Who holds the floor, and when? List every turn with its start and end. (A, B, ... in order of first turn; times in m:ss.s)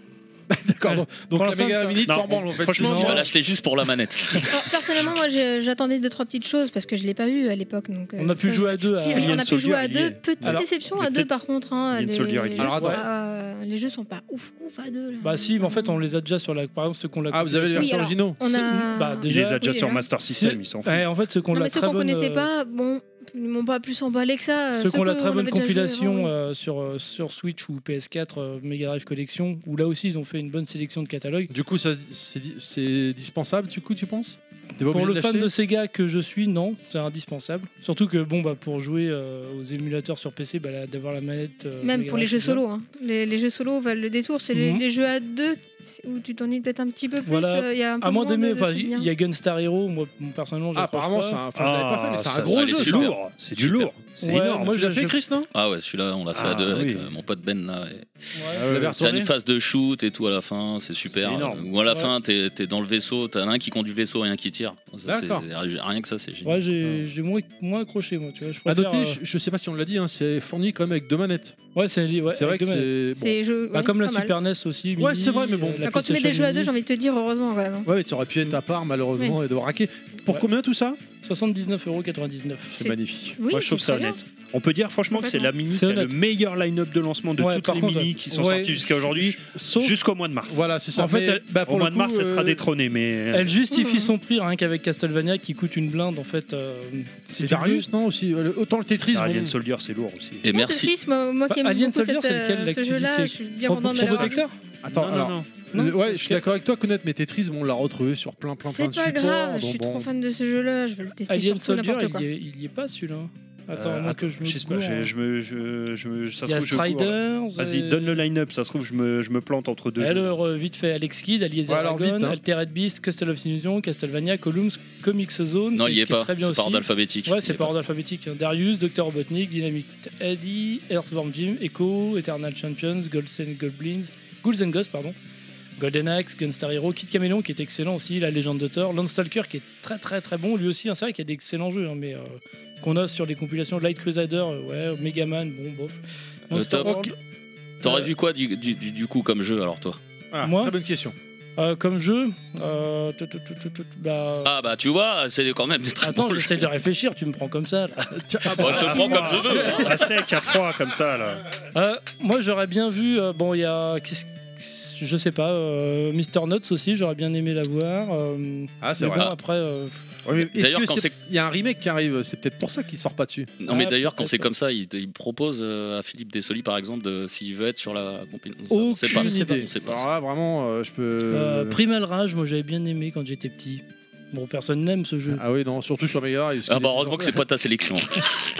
0:00.5-0:03.3 A
0:00.8-0:02.2 B
0:02.0-0:03.3 C
0:02.8-0:04.6 D
0:04.5-0:16.0 E
0:08.2-0:09.4 B
0:09.1-0:11.3 C
0:10.4-0:10.7 B
0:11.9-0:13.0 C
0:12.6-0:13.0 A
0:12.7-0:13.0 B
0:15.2-0:19.7 B
0:17.3-0:18.4 A
0:17.7-0:20.0 E
0:19.3-0:21.0 C
0:20.2-0:22.5 B
0:21.5-0:26.3 E
0:24.7-0:31.5 B
0:31.5-0:35.5 A
0:34.9-0:42.6 B
0:41.8-0:49.1 E
0:44.5-0:44.8 B
0:47.2-0:51.4 B
0:50.7-0:53.1 A
0:51.5-0:54.7 C
0:52.4-0:53.1 D
0:54.2-0:55.2 B
0:54.6-0:55.5 A
0:55.5-0:58.1 D
0:56.3-0:57.1 C
0:58.3-0:58.6 B
0:58.6-0:59.3 A
0:58.6-0:59.0 C
0:58.7-1:06.6 D
1:01.1-1:01.7 C
1:05.0-1:05.4 A
1:06.4-1:09.2 B
1:08.6-1:11.6 A
1:11.7-1:13.0 B
1:12.3-1:13.4 A
1:13.1-1:14.3 E
1:13.7-1:16.7 B
1:15.0-1:15.8 A
1:15.8-1:17.9 E
1:17.8-1:21.0 A
1:21.2-1:22.8 B
1:22.7-1:23.4 A
1:22.8-1:24.2 E
1:23.5-1:30.6 C
1:25.1-1:25.5 E
1:25.7-1:26.1 B
1:27.4-1:28.1 B
1:28.3-1:32.6 A
1:30.9-1:31.4 B
1:31.6-1:33.5 C
1:33.3-1:37.9 B
1:33.7-1:34.1 E
1:37.4-1:39.5 A
1:39.1-1:40.4 C
1:40.4-1:40.9 D
1:40.5-1:44.4 E
1:41.5-1:44.6 B
1:44.0-1:44.3 C
1:44.8-1:50.1 A
1:44.9-1:45.5 C
1:45.7-1:46.4 B
1:48.6-1:52.2 E
1:51.3-1:55.1 B
1:53.7-2:00.3 C
1:56.4-1:58.2 B
2:00.0-2:15.1 B
2:01.7-2:02.4 A
2:05.7-2:07.7 D
2:15.8-2:27.1 B
2:26.5-2:27.0 D
2:26.8-2:27.1 A
2:27.8-2:30.0 D
2:27.8-2:28.1 B
2:30.3-2:31.2 A
2:30.4-2:30.8 B
2:31.6-2:34.5 B
2:34.4-2:36.7 D
2:36.0-2:38.1 B
2:38.1-2:40.1 A
2:38.6-2:40.1 D
2:38.6-2:41.4 C
2:41.7-2:50.2 B
2:48.8-2:49.3 A
2:50.2-2:53.5 A
2:50.4-2:51.1 D
2:53.6-3:00.0 D
2:53.7-2:54.5 B
2:58.7-3:01.8 A
2:59.1-2:59.4 B
3:01.3-3:05.4 B
3:05.3-3:07.4 A
3:06.7-3:08.2 D